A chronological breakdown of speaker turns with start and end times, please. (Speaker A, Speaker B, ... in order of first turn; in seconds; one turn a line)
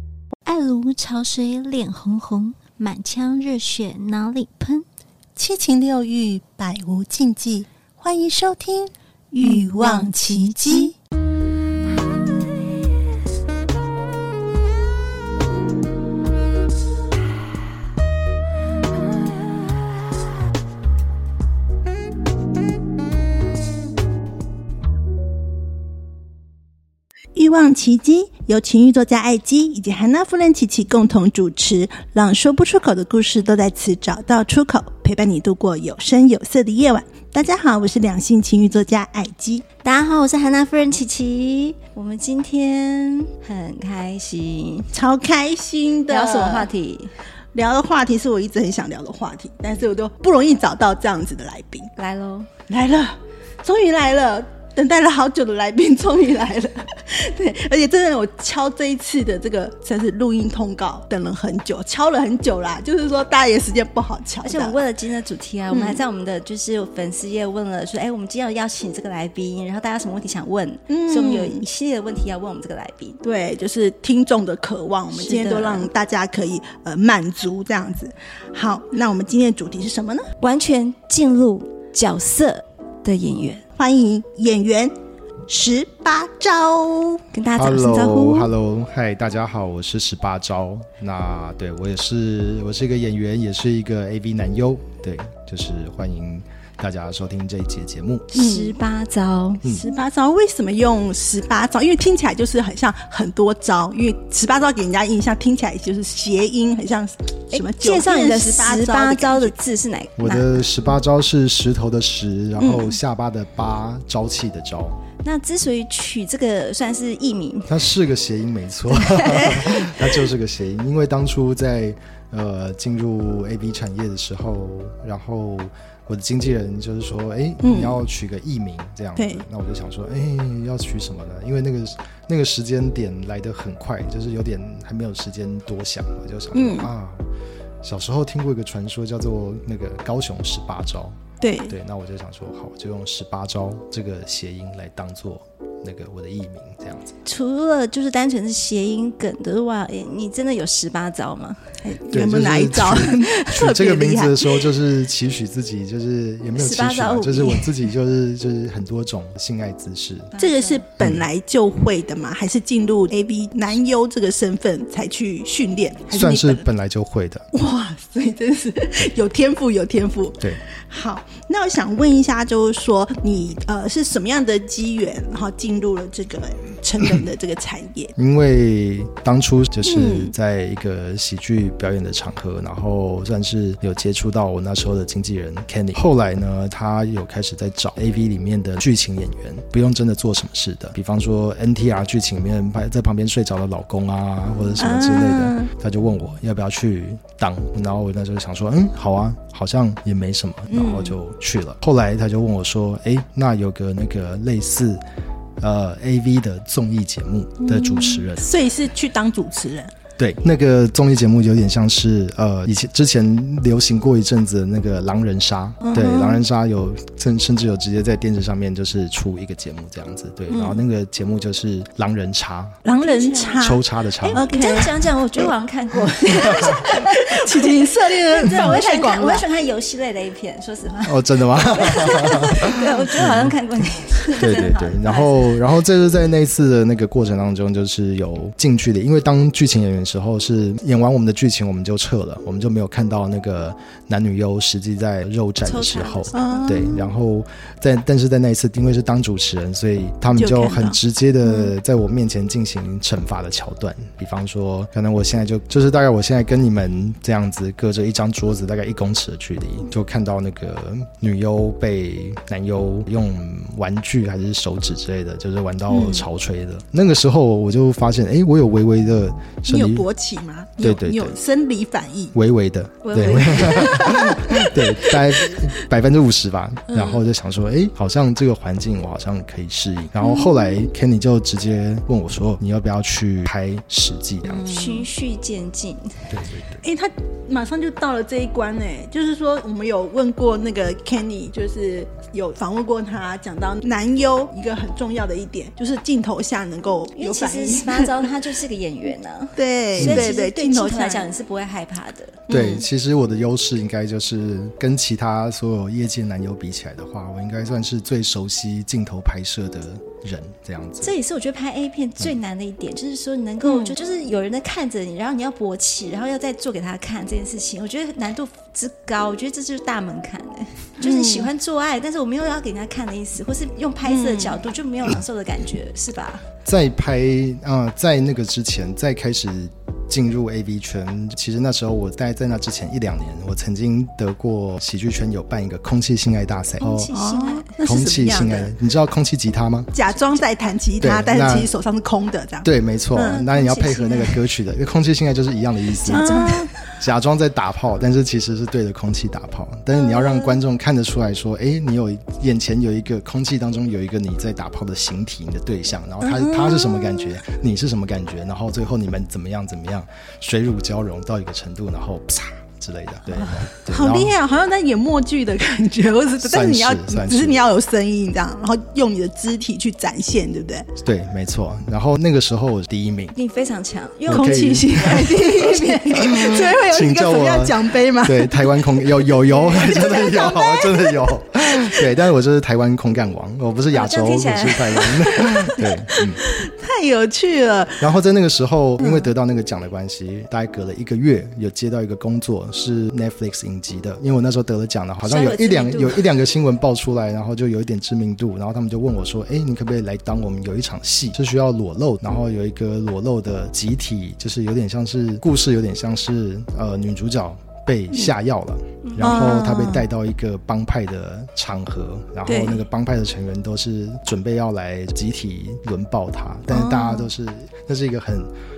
Speaker A: 0.4-4.8
Speaker B: 5.3-10.9
Speaker A: 9.4-10.9
Speaker B: 27.3-39.6
Speaker A: 39.8-44.9
Speaker B: 44.9-46.7
Speaker A: 46.1-47.1
Speaker B: 47.5-51.9
Speaker A: 52.0-52.5
Speaker B: 52.7-64.8
Speaker A: 64.4-73.2
Speaker B: 65.7-66.0
Speaker B: 70.9-71.7
Speaker B: 73.2-80.3
Speaker A: 75.1-75.9
Speaker A: 80.4-83.6
Speaker B: 83.8-84.9
Speaker B: 85.5-87.2
Speaker A: 87.3-88.5
Speaker C: 87.5-98.2
Speaker A: 98.3-100.0
Speaker B: 98.3-98.8
Speaker B: 99.8-109.5
Speaker A: 107.5-110.7
Speaker C: 110.2-115.0
Speaker B: 112.6-113.0
Speaker A: 115.2-117.9
Speaker C: 117.7-137.2
Speaker A: 119.1-119.5
Speaker B: 127.6-128.0
Speaker B: 129.2-129.4
Speaker B: 136.5-136.9
Speaker C: 137.8-141.2
Speaker B: 141.4-141.8
Speaker C: 141.7-147.1
Speaker A: 147.2-151.6
Speaker B: 151.8-154.6
Speaker C: 152.1-160.3
Speaker A: 156.6-157.8
Speaker A: 160.3-160.8
Speaker B: 160.4-166.6
Speaker C: 166.1-167.4
Speaker B: 167.5-178.1
Speaker C: 178.2-205.0
Speaker B: 179.8-180.3
Speaker B: 194.8-195.7
Speaker B: 200.7-201.1
Speaker C: 205.6-208.5
Speaker B: 207.6-209.9
Speaker C: 210.2-222.8
Speaker B: 215.8-216.4
Speaker B: 220.5-220.8
Speaker B: 222.8-225.5
Speaker A: 223.0-235.6
Speaker C: 223.6-224.5
Speaker B: 226.2-229.5
Speaker C: 231.1-233.5
Speaker C: 234.4-270.1
Speaker A: 245.6-247.0
Speaker B: 246.3-247.0
Speaker B: 250.3-251.0
Speaker B: 265.9-266.2
Speaker B: 269.7-272.3
Speaker C: 270.8-271.4
Speaker C: 272.3-284.7
Speaker A: 273.0-274.2
Speaker B: 273.5-275.7
Speaker B: 276.9-277.2
Speaker B: 280.2-280.6
Speaker B: 284.4-285.1
Speaker A: 284.6-286.3
Speaker C: 286.3-286.8
Speaker B: 286.8-298.3
Speaker A: 297.1-302.4
Speaker B: 299.6-301.3
Speaker C: 300.0-300.3
Speaker B: 302.5-302.9
Speaker C: 302.5-311.1
Speaker A: 311.0-326.4
Speaker B: 313.6-313.9
Speaker B: 321.0-321.5
Speaker B: 324.0-324.6
Speaker C: 326.6-337.1
Speaker A: 336.8-337.7
Speaker B: 337.1-338.7
Speaker C: 337.8-339.9
Speaker B: 339.9-343.4
Speaker A: 340.1-340.4
Speaker C: 341.0-341.7
Speaker C: 342.6-346.4
Speaker A: 343.2-344.4
Speaker A: 346.1-346.7
Speaker B: 346.1-346.7
Speaker C: 347.0-364.3
Speaker A: 350.0-350.6
Speaker B: 356.2-357.4
Speaker A: 363.3-363.6
Speaker B: 363.9-370.9
Speaker C: 366.4-367.6
Speaker C: 371.0-373.3
Speaker A: 373.3-376.1
Speaker C: 374.3-375.3
Speaker B: 374.3-382.0
Speaker C: 376.1-386.4
Speaker A: 383.9-385.3
Speaker B: 385.6-388.1
Speaker C: 388.0-418.5
Speaker B: 389.0-389.3
Speaker A: 395.2-396.3
Speaker A: 409.1-409.4
Speaker B: 409.2-410.1
Speaker B: 412.5-412.8
Speaker B: 416.7-417.3